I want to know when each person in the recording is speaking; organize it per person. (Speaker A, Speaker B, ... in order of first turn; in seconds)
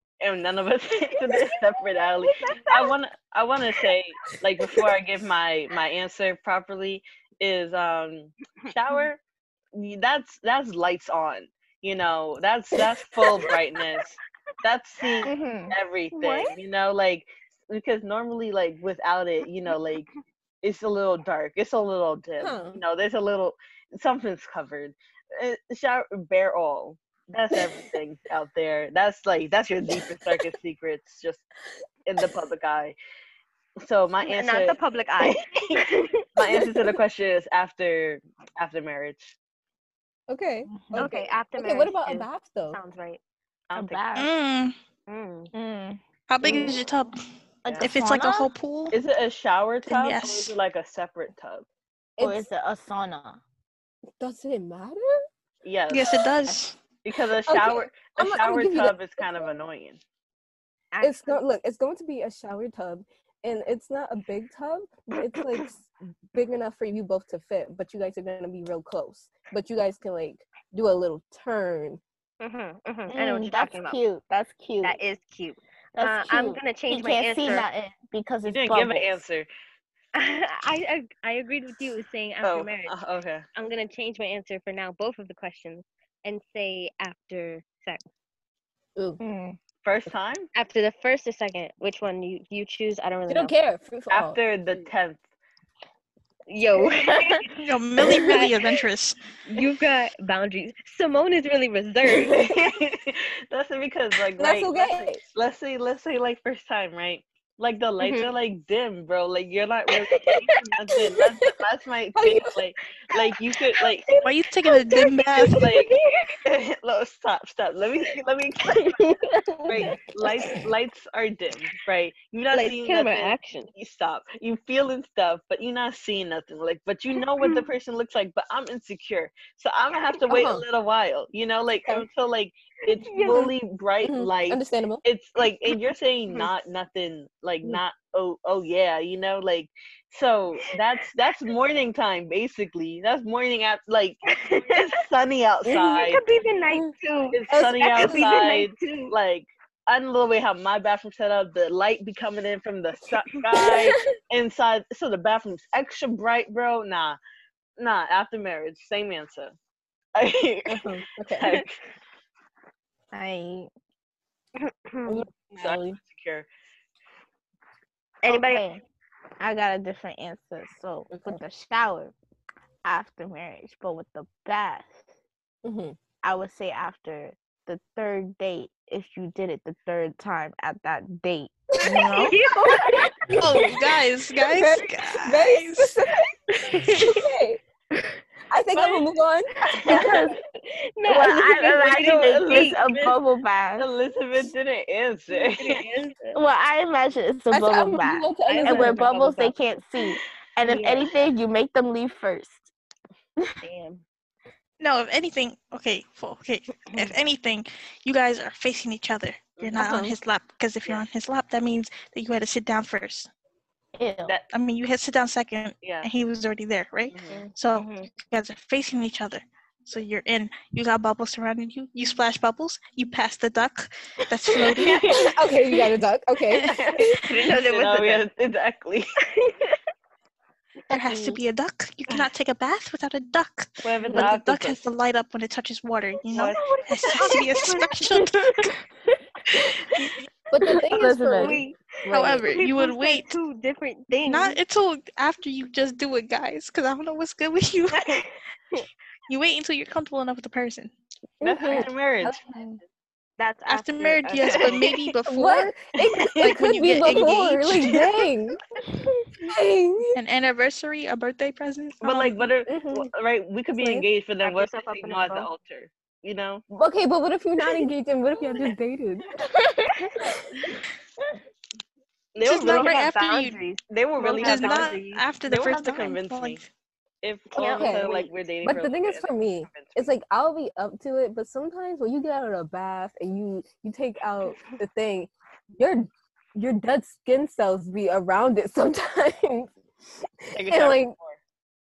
Speaker A: 0.2-9.2, 9.7-20.1, 20.6-31.4, 32.0-33.0, 33.8-39.3, 43.7-44.0, 48.9-51.6, 55.6-56.1, 57.0-60.0, 78.4-79.5, 82.4-83.4, 89.8-90.5, 94.1-95.2, 102.1-114.0, 115.5-115.9, 116.4-119.0, 119.7-146.2, 147.3-157.2, 157.8-159.6, 160.1-161.8, 165.6-166.5, 189.8-190.1, 191.7-193.2, 193.8-195.8, 209.6-210.0, 215.8-216.1, 217.1-217.4, 224.7-225.3, 226.6-229.1, 233.8-234.8, 236.3-236.6, 251.4-252.4, 254.4-255.0, 256.2-258.0, 262.0-266.6, 272.3-273.1, 273.9-276.6, 277.2-280.1, 290.5-291.4
Speaker B: 15.2-15.7, 40.7-41.1, 43.7-44.3, 45.5-46.8, 47.6-48.5, 52.2-53.4, 73.1-75.0, 76.0-79.2, 89.2-89.6, 96.8-97.4, 163.1-163.7, 168.2-168.8, 169.4-172.1, 172.8-175.0, 176.2-182.1, 189.8-190.4, 191.1-193.9, 196.3-202.7, 213.9-214.3, 240.9-241.6, 269.6-269.9
Speaker C: 16.1-16.5, 34.2-36.1, 40.9-43.2, 45.1-45.5, 60.9-61.4, 72.4-74.0, 74.8-77.7, 80.1-83.0, 83.5-88.0, 90.5-93.5, 96.5-98.7, 99.5-102.5, 108.0-108.3, 114.9-116.4, 118.8-119.6, 122.5-123.7, 133.0-133.5, 144.3-144.9, 145.7-149.1, 164.6-165.2, 168.2-168.7, 182.1-183.2, 186.7-187.2, 189.9-192.8, 195.5-196.4, 198.4-199.6, 200.6-201.2, 203.6-204.0, 206.9-207.1, 217.3-218.1, 227.3-228.2, 229.4-229.8, 236.3-238.7, 241.4-244.6, 253.4-254.8, 264.4-265.5, 272.5-275.2, 277.6-278.3
Speaker D: 22.4-22.8, 40.3-42.8, 52.2-52.5, 54.2-55.0, 57.5-59.5, 61.0-72.0, 93.3-94.4, 104.4-105.2, 112.1-112.6, 130.3-130.6, 134.0-135.0, 147.5-148.4, 160.7-161.5, 165.1-166.0, 171.1-171.4, 175.6-176.0, 181.8-183.7, 184.3-187.6, 188.5-190.1, 197.5-199.1, 209.7-210.1, 225.1-227.3, 240.5-242.5, 251.4-252.7, 255.2-258.6, 259.4-260.2, 262.7-263.1, 263.7-264.1, 266.7-269.2, 270.2-270.7, 277.6-289.7, 290.4-291.1
Speaker E: 44.1-44.7, 46.3-47.1, 47.8-49.0, 49.9-50.5, 55.9-56.8, 97.5-99.2, 114.2-115.7, 181.9-182.3, 183.3-185.9, 204.8-213.3, 214.5-225.3, 230.9-238.7, 242.1-243.3, 244.2-248.3, 249.3-250.9, 253.7-255.8, 256.4-258.0, 260.1-262.4, 272.4-273.6, 274.2-276.6